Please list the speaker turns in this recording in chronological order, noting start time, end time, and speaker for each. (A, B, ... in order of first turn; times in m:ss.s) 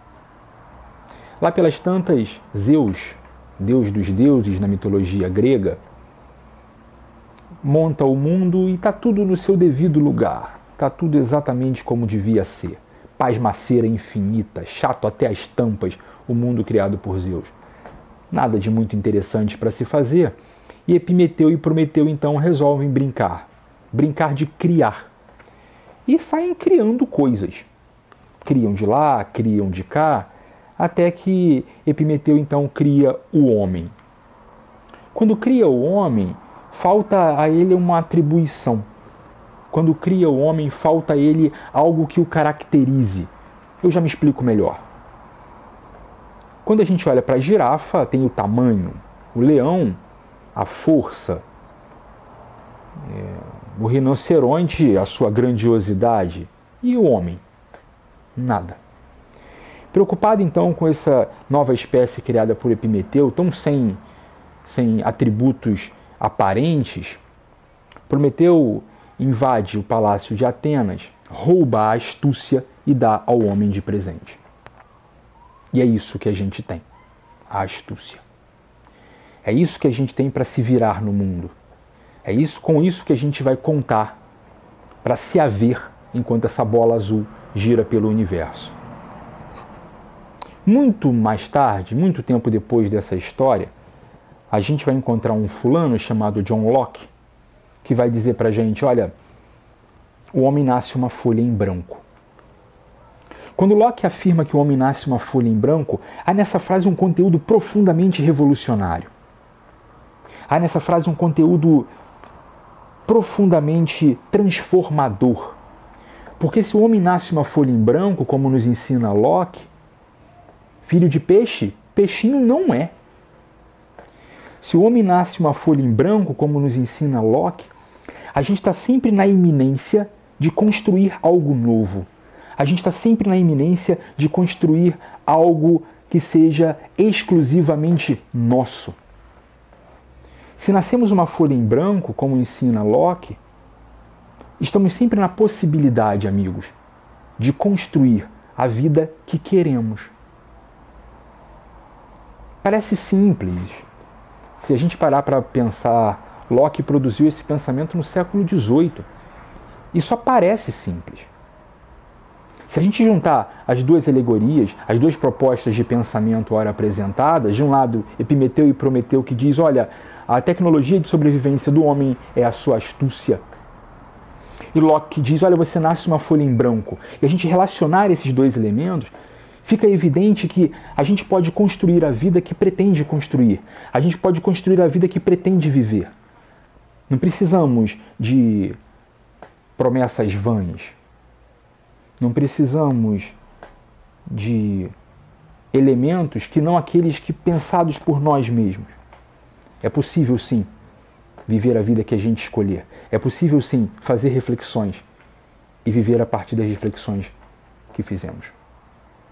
0:01.4-0:05.8 A
0:07.6-0:17.5 A
0:18.3-0:25.1 A
0:26.0-0:27.7 A
0:28.4-0:33.9 A
0:35.1-0:38.9 A
0:39.7-0:44.8 A
0:46.6-0:50.0 A
0:50.5-0:51.4 A
0:53.0-0:57.4 A
0:58.4-0:58.8 A
0:59.9-1:04.0 A
1:04.6-1:07.2 A
1:08.1-1:14.4 A
1:15.7-1:16.8 A
1:17.5-1:18.2 A
1:19.4-1:21.5 A
1:22.2-1:24.2 A
1:25.0-1:28.8 A
1:30.6-1:33.7 A
1:34.5-1:37.1 A
1:37.8-1:39.1 A
1:40.3-1:42.0 A
1:43.6-1:49.1 A
1:50.5-1:51.9 A
1:53.0-1:55.6 A
1:56.4-1:59.7 A
2:00.8-2:02.9 A
2:04.6-2:07.7 A
2:08.3-2:19.0 A
2:20.6-2:23.4 A
2:24.6-2:26.7 A
2:27.4-2:30.1 A
2:32.6-2:33.8 A
2:34.6-2:39.1 A
2:39.9-2:41.3 A
2:42.7-2:53.4 A
2:54.7-3:06.1 A
3:07.1-3:08.8 A
3:09.8-3:10.9 A
3:12.2-3:13.4 A
3:14.3-3:14.9 A
3:15.7-3:18.9 A
3:19.8-3:20.7 A
3:21.5-3:25.0 A
3:25.8-3:27.3 A
3:27.9-3:28.5 A